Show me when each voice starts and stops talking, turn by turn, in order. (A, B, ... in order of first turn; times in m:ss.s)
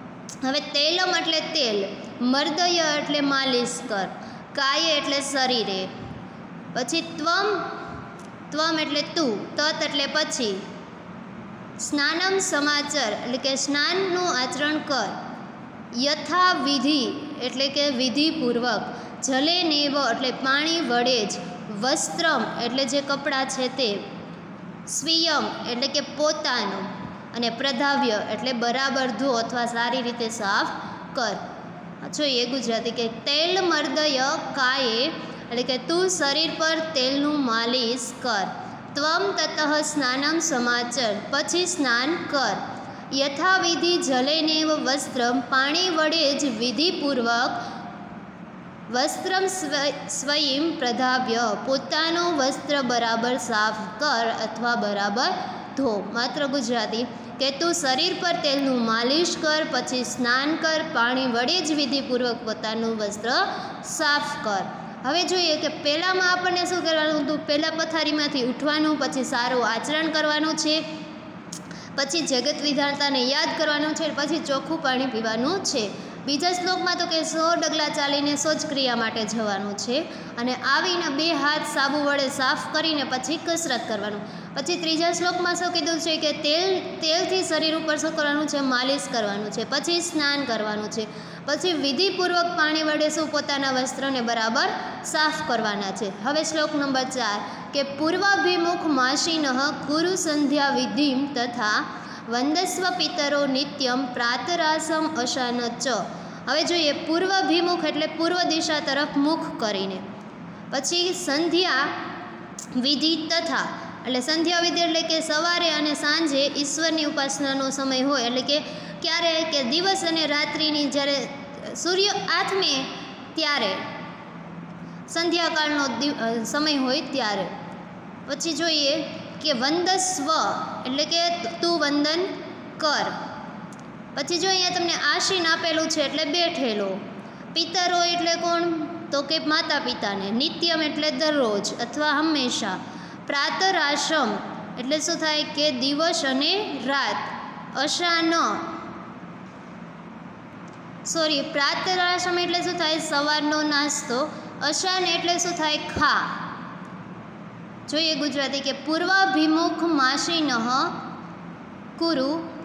0:00.4-0:05.9 A
0:06.7-0:07.7 A
0:08.5-0:10.6 A
0:11.8-0:15.2 A
0:15.9-0:24.0 A
0:24.9-0:31.4 A
0:32.0-0:42.6 A
0:43.1-0:47.6 A
0:48.9-1:10.8 A
1:12.0-1:50.0 A
1:50.7-1:51.9 A
1:52.8-2:03.8 A
2:05.1-2:07.5 A
2:08.3-2:13.1 A
2:14.1-2:17.0 A
2:17.5-2:28.6 A
2:31.0-2:36.4 A
2:37.9-2:41.0 A
2:42.0-2:42.5 A